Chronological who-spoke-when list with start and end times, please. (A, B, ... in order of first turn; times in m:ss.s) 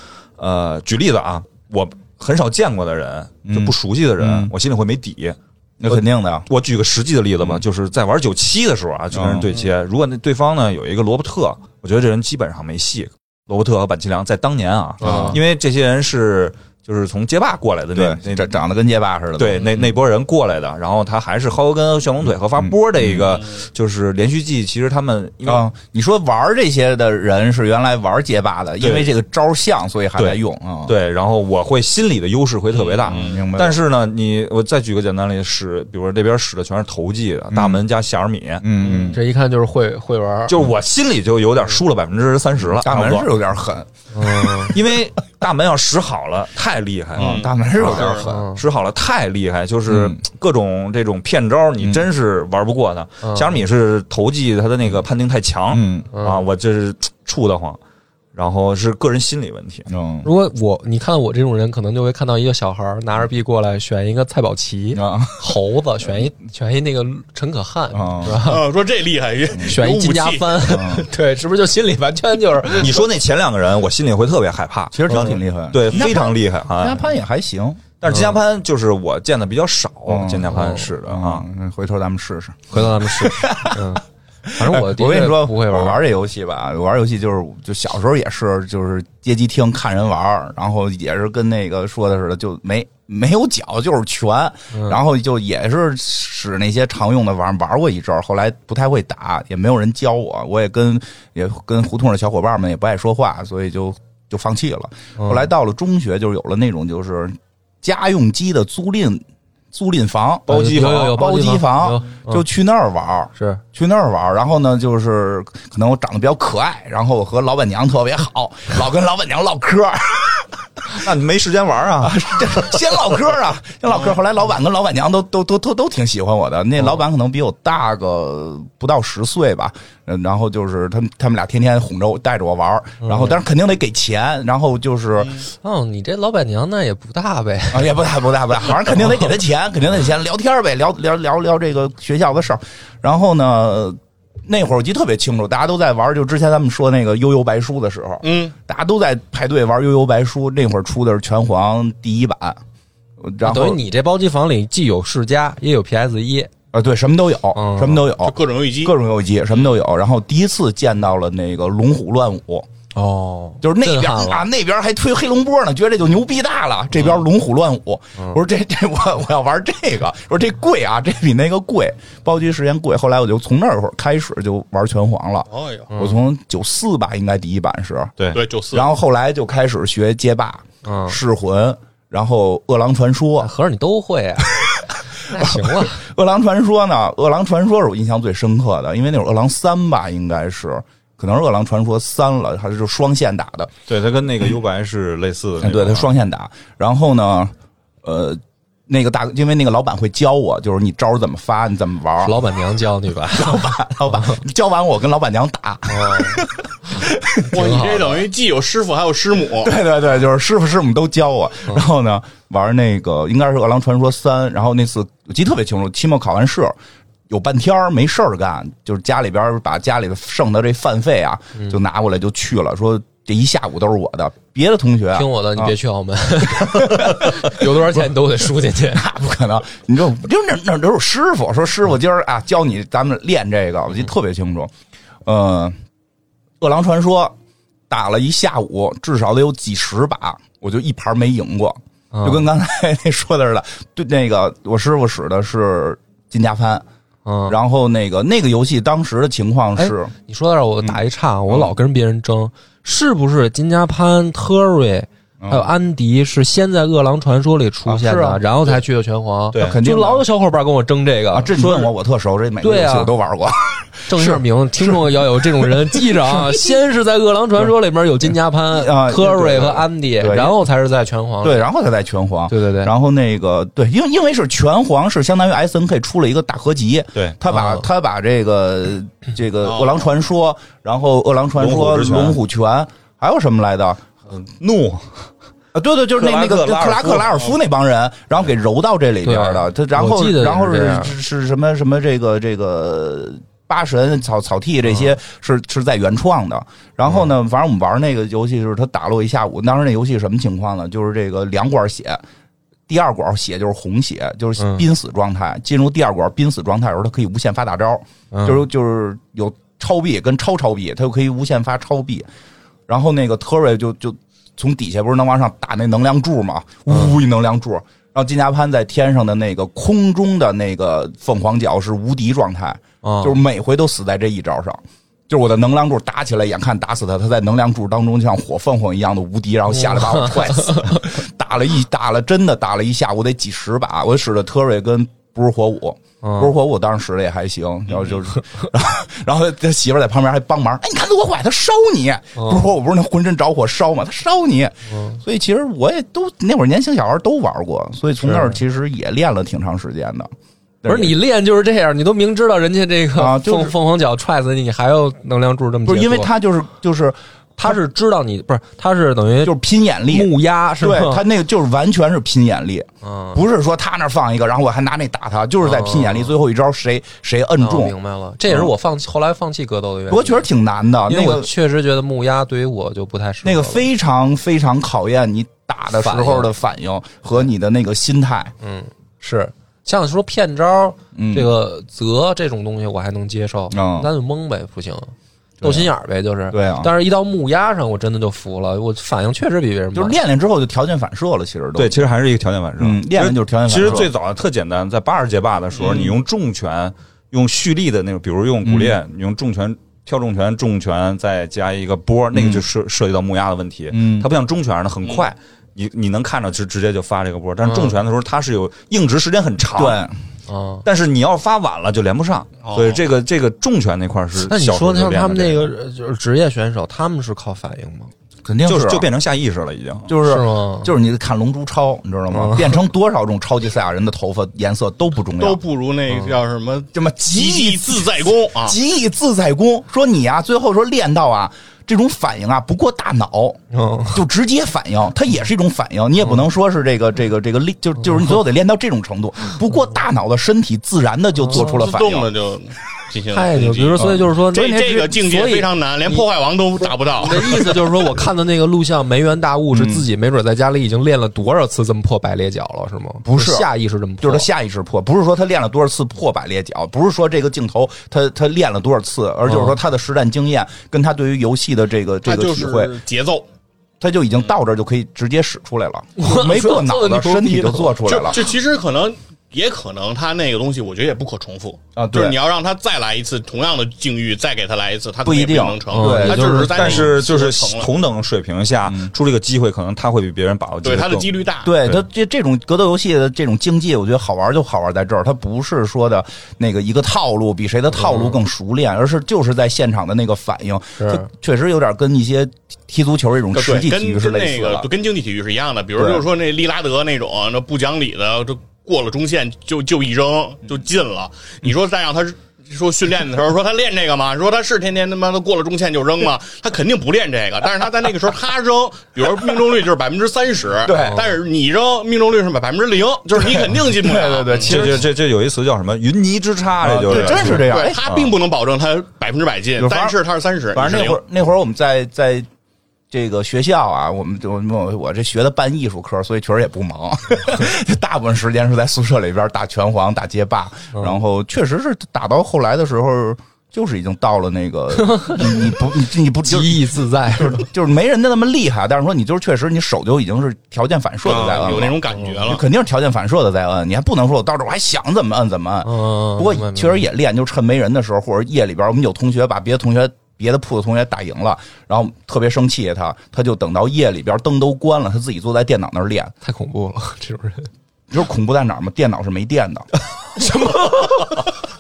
0:00.4-0:18.5 A
0:03.5-0:04.5 B
0:05.8-0:06.5 B
0:09.1-0:09.5 B
0:15.0-0:15.4 B
0:15.0-0:15.4 C
0:18.0-0:19.7 B
0:19.4-0:25.7 A
0:22.6-0:23.3 B
0:25.4-0:30.9 B
0:28.8-0:29.1 A
0:30.2-0:38.7 A
0:32.7-0:33.4 D
0:33.1-0:33.8 B
0:37.5-0:37.8 B
0:38.6-0:39.2 B
0:38.8-0:39.2 D
0:39.1-0:40.6 C
0:40.5-0:43.3 A
0:42.8-0:44.8 B
0:44.1-0:44.7 C
0:44.7-0:57.8 A
0:47.2-0:48.4 B
0:47.2-0:48.3 D
0:48.2-0:48.6 C
0:49.9-0:50.2 B
0:53.2-0:53.6 C
0:55.7-0:56.1 B
0:56.1-0:56.4 C
0:58.4-0:59.9 A
0:59.9-1:00.3 B
1:00.2-1:08.6 C
1:05.0-1:05.4 B
1:07.9-1:08.4 B
1:08.3-1:10.6 D
1:09.6-1:13.0 C
1:10.6-1:11.1 B
1:12.7-1:17.1 A
1:14.9-1:17.8 B
1:18.0-1:21.4 A
1:18.1-1:18.4 C
1:20.1-1:24.0 B
1:20.6-1:20.8 C
1:22.7-1:24.0 C
1:24.6-1:26.0 C
1:24.6-2:01.0 B
1:34.7-1:35.0 C
1:45.2-1:45.5 C
1:50.5-1:52.4 C
1:50.5-1:51.1 A
1:53.4-1:53.6 C
2:00.9-2:02.5 A
2:02.0-2:15.4 B
2:13.0-2:13.4 C
2:15.6-2:17.9 C
2:17.7-2:32.6 B
2:28.2-2:28.6 D
2:33.2-2:33.8 B
2:33.4-2:36.5 C
2:36.7-2:42.7 B
2:37.6-2:38.0 C
2:38.2-2:39.0 D
2:43.0-2:44.4 C
2:43.6-2:58.1 B
2:55.5-2:55.9 D
2:55.9-2:56.2 C
2:58.3-2:58.9 D
2:58.7-3:03.5 B
3:00.8-3:01.2 C
3:03.4-3:04.5 C
3:04.5-3:13.7 B
3:05.3-3:06.0 C
3:13.9-3:16.1 A
3:15.6-3:22.4 B
3:22.2-3:24.4 C
3:23.3-3:27.5 B
3:25.9-3:26.4 C
3:27.5-3:29.8 D
3:27.5-3:28.2 C
3:29.6-3:36.8 B
3:37.3-3:45.8 B
3:45.1-3:49.1 C
3:46.5-3:47.6 B
3:48.9-3:54.7 B
3:55.2-3:55.8 B
3:56.6-3:57.4 B
3:57.9-4:06.8 B
4:02.1-4:02.5 C
4:07.3-4:07.6 C
4:07.5-4:10.1 B
4:09.8-4:21.9 C
4:10.8-4:11.7 B
4:15.4-4:15.7 B
4:17.9-4:18.4 B
4:19.5-4:19.8 A
4:19.6-4:20.3 B
4:21.3-4:26.7 B
4:22.6-4:23.1 C
4:24.1-4:31.7 C
4:28.7-4:30.6 B
4:31.4-4:44.1 B
4:32.5-4:32.9 C
4:37.5-4:37.8 C
4:39.6-4:40.1 D
4:41.6-4:42.4 A
4:44.3-4:45.1 A
4:45.7-5:02.2 B
4:46.2-4:47.4 A
4:49.2-4:51.1 C
5:02.9-5:12.3 B
5:04.6-5:04.8 C
5:08.3-5:08.6 C
5:12.9-5:50.3 B
5:16.9-5:17.2 C
5:23.0-5:23.4 C
5:29.7-5:31.0 C
5:36.2-5:36.6 C
5:42.4-5:42.7 C
5:44.9-5:45.2 C
5:48.2-5:48.6 C
5:50.8-5:51.2 B
5:50.8-5:56.3 C
5:53.1-5:53.7 B
5:55.9-5:57.7 B
5:57.6-6:01.2 C
5:59.4-6:07.9 B
6:03.0-6:03.4 C
6:05.6-6:06.3 C
6:07.6-6:10.4 C
6:10.1-6:11.5 B
6:11.1-6:13.9 C
6:13.4-6:18.5 B
6:16.0-6:16.5 C
6:18.6-6:30.2 C
6:21.1-6:21.5 B
6:23.7-6:24.1 B
6:25.6-6:25.9 B
6:26.5-6:26.9 B
6:29.9-6:32.0 B
6:31.8-6:50.0 A
6:32.8-6:34.1 B
6:35.8-6:36.1 D
6:38.6-6:39.0 B
6:42.3-6:42.6 B
6:43.9-6:44.3 B
6:47.6-6:48.0 C
6:49.8-6:50.2 B
6:50.5-6:50.8 C
6:50.8-6:55.7 A
6:52.6-6:53.0 D
6:54.4-6:58.1 C
6:58.4-6:59.1 B
6:58.6-7:00.1 A
7:00.1-7:05.6 B
7:00.2-7:00.9 C
7:02.3-7:02.8 C
7:05.4-7:08.8 D
7:06.1-7:06.4 C
7:06.9-7:13.6 B
7:13.7-7:14.2 C
7:14.1-7:22.3 B
7:21.4-7:21.8 C
7:21.5-7:27.8 D
7:23.3-7:26.2 C
7:24.0-7:24.3 B
7:27.1-7:34.5 C
7:29.7-7:30.0 B
7:33.2-7:33.7 B
7:34.2-7:42.9 B
7:39.4-7:39.8 C
7:42.2-7:43.5 D
7:44.0-7:48.5 B
7:46.2-7:48.0 C
7:48.0-7:57.9 D
7:52.0-7:52.4 B
7:55.2-7:56.7 B
7:55.9-7:57.1 C
7:56.6-8:02.0 A
8:00.8-8:01.8 D
8:01.6-8:14.9 B
8:08.0-8:08.4 C
8:11.0-8:11.3 C
8:13.5-8:35.0 D
8:16.0-8:16.2 B
8:30.8-8:31.3 B
8:33.3-8:35.1 B
8:34.6-8:38.4 A
8:36.8-8:38.0 B
8:37.1-8:41.2 D
8:39.8-8:40.2 B
8:40.7-8:42.5 B
8:43.1-9:16.3 B
8:55.0-8:55.8 C
8:56.4-8:57.7 C
9:01.2-9:02.6 D
9:05.8-9:07.0 C
9:16.4-9:17.7 C
9:18.1-9:19.9 B
9:20.3-9:21.5 C